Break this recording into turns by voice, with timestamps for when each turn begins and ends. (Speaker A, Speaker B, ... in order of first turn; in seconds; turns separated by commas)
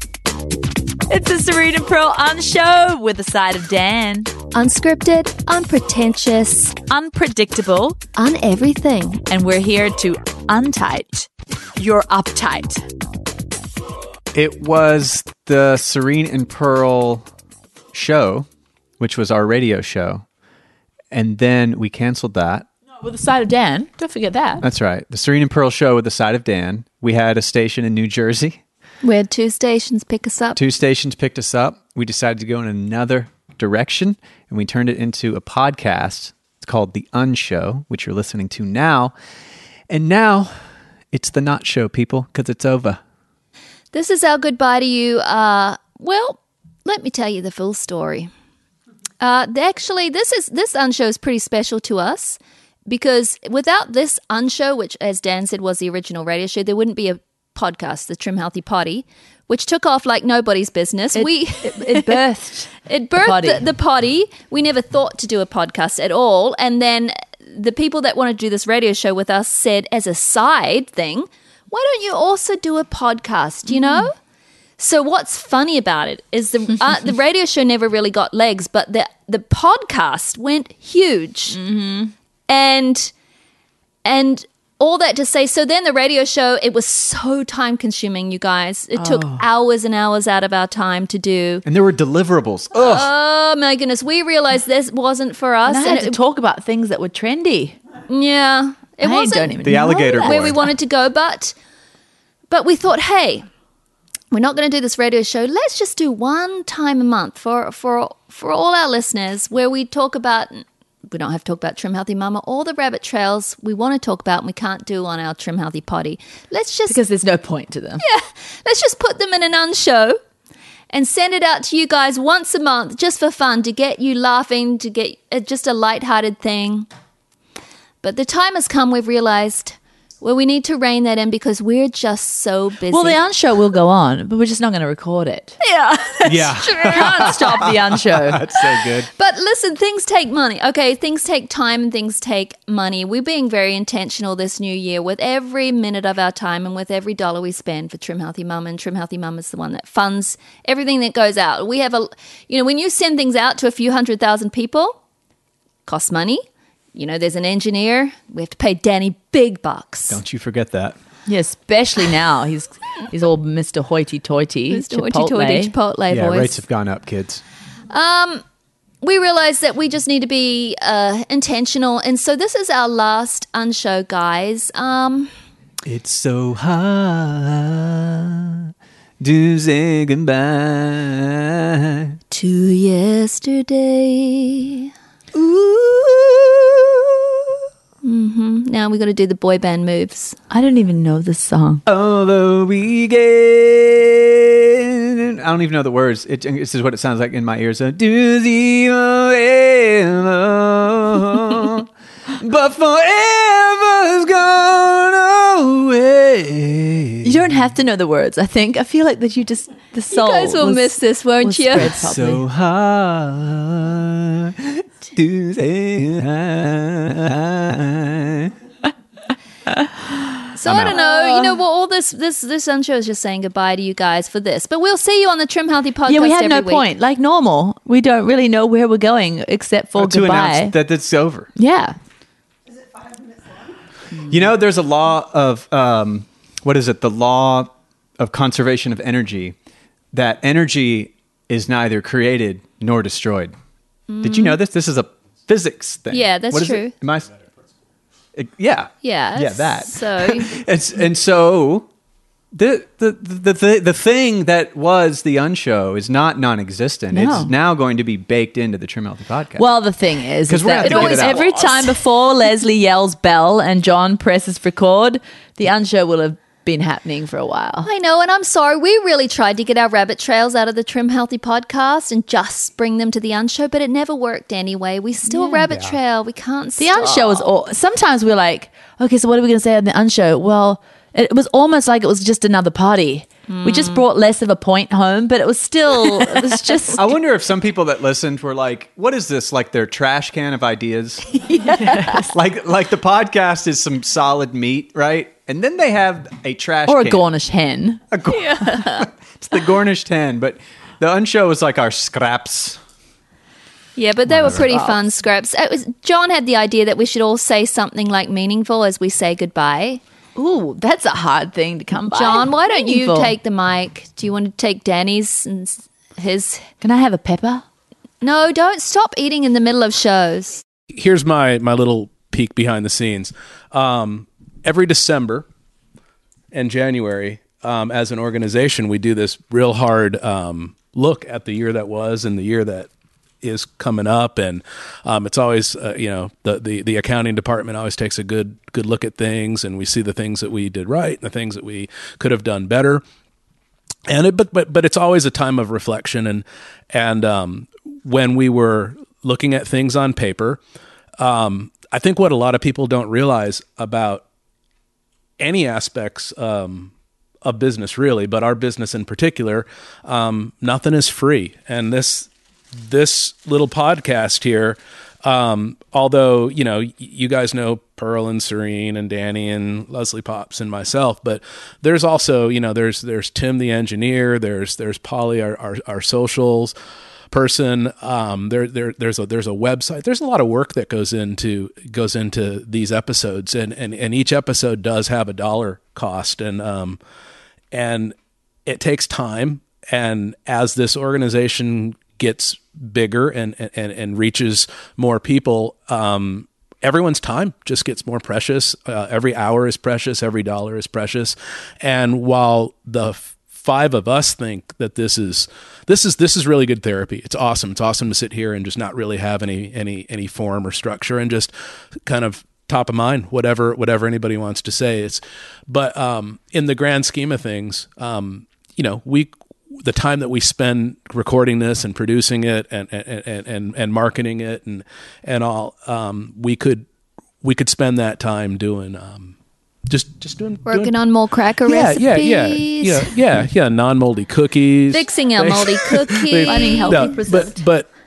Speaker A: 1.1-4.3, Speaker B: 4.5-6.8, Speaker A: 6.9-8.0, Speaker B: 8.2-9.2, Speaker A: 9.3-12.8, Speaker C: 14.3-17.3, Speaker C: 17.9-18.5, Speaker C: 19.0-20.3, Speaker C: 21.1-22.7, Speaker A: 23.0-24.6, Speaker C: 24.6-28.6, Speaker B: 29.0-30.6, Speaker C: 30.6-39.1, Speaker C: 39.9-40.6, Speaker C: 41.1-43.0, Speaker B: 43.9-48.3, Speaker B: 49.2-62.1, Speaker A: 61.1-63.7, Speaker B: 62.9-74.2, Speaker A: 73.7-74.1, Speaker B: 74.8-81.6, Speaker A: 81.5-82.1, Speaker B: 82.5-83.1, Speaker B: 84.0-91.6, Speaker A: 89.0-89.4, Speaker C: 91.7-93.1, Speaker B: 92.7-96.2, Speaker A: 95.7-97.8, Speaker B: 98.1-101.5, Speaker A: 99.0-100.5, Speaker C: 99.6-100.6, Speaker B: 102.5-103.5, Speaker B: 104.3-117.0, Speaker A: 116.9-118.0, Speaker B: 118.0-120.2, Speaker B: 120.9-126.9, Speaker B: 128.0-133.2, Speaker A: 132.9-135.6, Speaker B: 135.6-137.8, Speaker C: 136.2-139.1, Speaker A: 136.7-138.4, Speaker B: 138.6-155.0, Speaker B: 155.9-156.4, Speaker B: 156.9-160.2, Speaker C: 160.1-161.0, Speaker A: 161.3-165.7, Speaker B: 164.7-166.6, Speaker C: 166.1-167.4, Speaker B: 167.9-168.4, Speaker B: 169.0-175.3, Speaker C: 175.8-182.2, Speaker B: 182.3-184.9, Speaker C: 185.3-187.6, Speaker B: 188.0-190.4, Speaker A: 190.5-191.8, Speaker C: 191.9-207.4, Speaker A: 207.2-212.4, Speaker B: 210.1-212.0, Speaker C: 211.8-218.5, Speaker B: 220.6-226.8, Speaker C: 220.7-221.0, Speaker D: 220.7-221.0, Speaker A: 221.0-221.5, Speaker A: 226.1-230.8, Speaker C: 230.0-231.5, Speaker A: 231.6-232.0, Speaker C: 234.2-239.6, Speaker C: 240.1-243.5, Speaker B: 244.1-244.6, Speaker C: 244.2-247.4, Speaker B: 246.1-246.9, Speaker C: 248.3-251.9, Speaker B: 249.0-250.5, Speaker C: 252.5-259.7, Speaker A: 257.1-257.5, Speaker A: 259.6-267.9, Speaker C: 260.5-261.4, Speaker B: 260.8-262.0, Speaker B: 267.8-277.5, Speaker A: 275.3-275.6, Speaker C: 275.7-276.0, Speaker A: 276.8-287.1, Speaker B: 283.5-284.0, Speaker C: 286.9-291.2, Speaker A: 291.4-292.3, Speaker C: 291.9-297.2, Speaker A: 296.9-298.0, Speaker C: 298.1-302.8, Speaker B: 298.3-299.1, Speaker B: 304.0-310.0, Speaker C: 304.3-304.7, Speaker A: 304.6-305.0, Speaker A: 310.4-313.3, Speaker B: 312.1-316.7, Speaker A: 316.8-317.6, Speaker B: 318.2-320.6, Speaker D: 320.9-325.5, Speaker D: 326.5-332.9, Speaker D: 333.4-343.0, Speaker D: 344.1-350.6, Speaker D: 351.2-354.2, Speaker D: 355.4-356.9, Speaker D: 357.4-376.7, Speaker D: 377.3-387.0, Speaker D: 387.7-411.5, Speaker D: 412.1-426.9, Speaker D: 427.4-429.4, Speaker D: 429.9-430.9, Speaker B: 430.7-433.1, Speaker D: 431.6-437.9, Speaker B: 434.9-437.2, Speaker A: 436.4-437.6